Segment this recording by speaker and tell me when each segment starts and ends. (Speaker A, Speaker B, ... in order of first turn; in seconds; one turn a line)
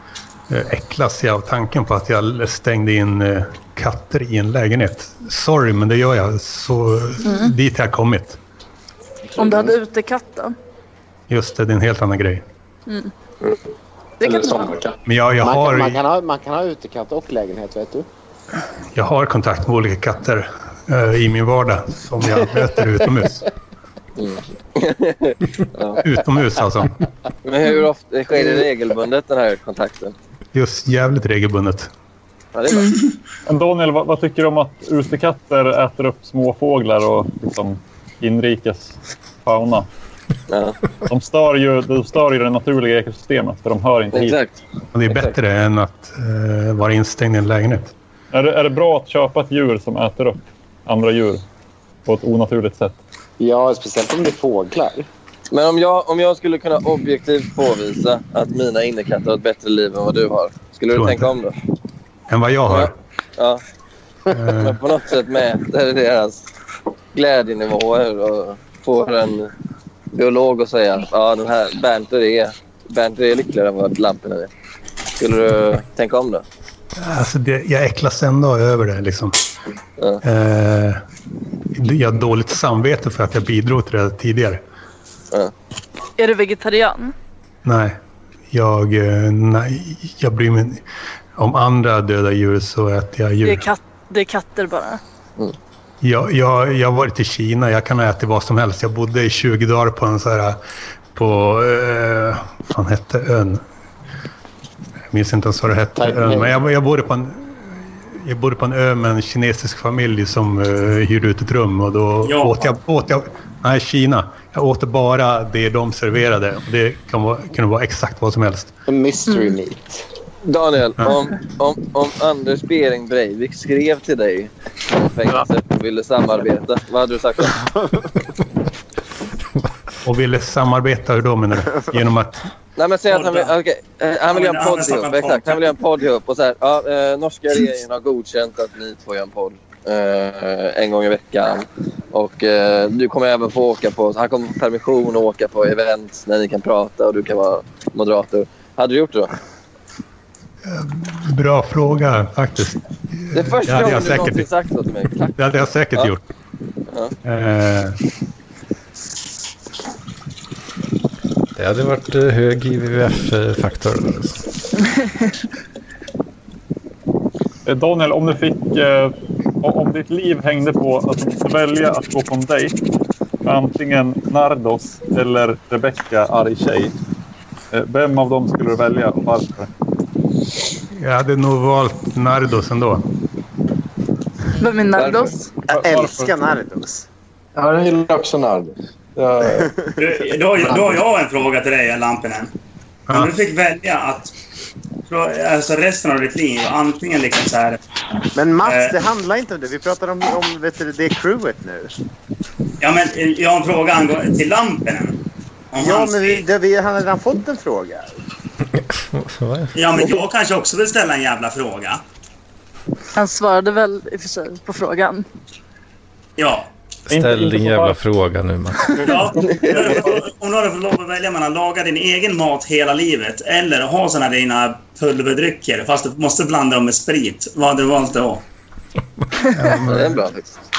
Speaker A: 0.5-8.4
Speaker B: 7.2-7.5
Speaker B: 9.3-10.5
Speaker A: 11.3-12.4
Speaker B: 12.9-13.1
Speaker B: 14.2-14.7
Speaker C: 14.2-15.0
Speaker A: 15.1-16.0
Speaker D: 15.4-18.1
Speaker A: 18.9-23.5
Speaker E: 24.2-26.0
Speaker A: 26.0-26.9
Speaker E: 27.4-30.1
Speaker A: 30.5-31.9
Speaker E: 32.5-32.9
Speaker F: 33.5-39.9
Speaker E: 40.5-40.8
Speaker F: 41.1-44.4
Speaker E: 44.1-45.4
Speaker A: 44.9-47.9
Speaker F: 48.3-51.4
Speaker F: 52.0-53.0
Speaker D: 53.4-55.1
Speaker E: 55.5-61.5
Speaker A: 60.9-61.3
Speaker A: 62.3-62.9
Speaker E: 62.6-63.6
Speaker A: 64.3-64.8
Speaker E: 64.5-66.4
Speaker E: 67.1-69.5
Speaker E: 70.1-74.5
Speaker E: 75.2-76.4
Speaker A: 77.0-79.3
Speaker E: 80.0-80.2
Speaker A: 80.2-81.0
Speaker A: 81.7-84.6
Speaker B: 86.2-87.1
Speaker A: 87.6-88.0
Speaker A: 88.5-90.8
Speaker A: 91.3-93.7
Speaker B: 93.4-95.0
Speaker A: 96.0-100.6
Speaker A: 101.1-103.6
Speaker A: 105.1-118.7
Speaker D: 106.0-106.5
Speaker G: 112.2-112.7
Speaker D: 118.9-120.0
Speaker E: 120.4-127.6
Speaker D: 127.6-128.1
Speaker A: 130.0-132.4
Speaker E: 132.8-149.3
Speaker G: 133.1-133.5
Speaker G: 134.3-135.7
Speaker A: 150.7-154.4
Speaker E: 153.3-156.1
Speaker A: 155.4-156.2
Speaker E: 156.9-157.1
Speaker A: 157.2-158.0
Speaker H: 161.6-164.4
Speaker F: 167.7-172.7
Speaker F: 173.4-176.9
Speaker F: 177.7-179.7
Speaker A: 180.9-183.1
Speaker B: 184.6-185.5
Speaker E: 184.9-185.3
Speaker D: 185.7-187.0
Speaker F: 185.7-186.3
Speaker C: 187.6-189.8
Speaker G: 190.0-192.5
Speaker G: 193.1-194.3
Speaker G: 195.1-197.8
Speaker D: 198.3-202.0
Speaker G: 198.6-199.0
Speaker G: 202.8-205.2
Speaker G: 205.7-206.4
Speaker D: 205.8-208.1
Speaker H: 208.8-209.7
Speaker G: 209.7-212.0
Speaker B: 213.1-215.2
Speaker G: 216.4-216.7
Speaker F: 217.1-218.0
Speaker H: 217.1-219.2
Speaker G: 219.0-228.4
Speaker E: 219.5-219.8
Speaker A: 229.5-230.2
Speaker E: 229.7-230.5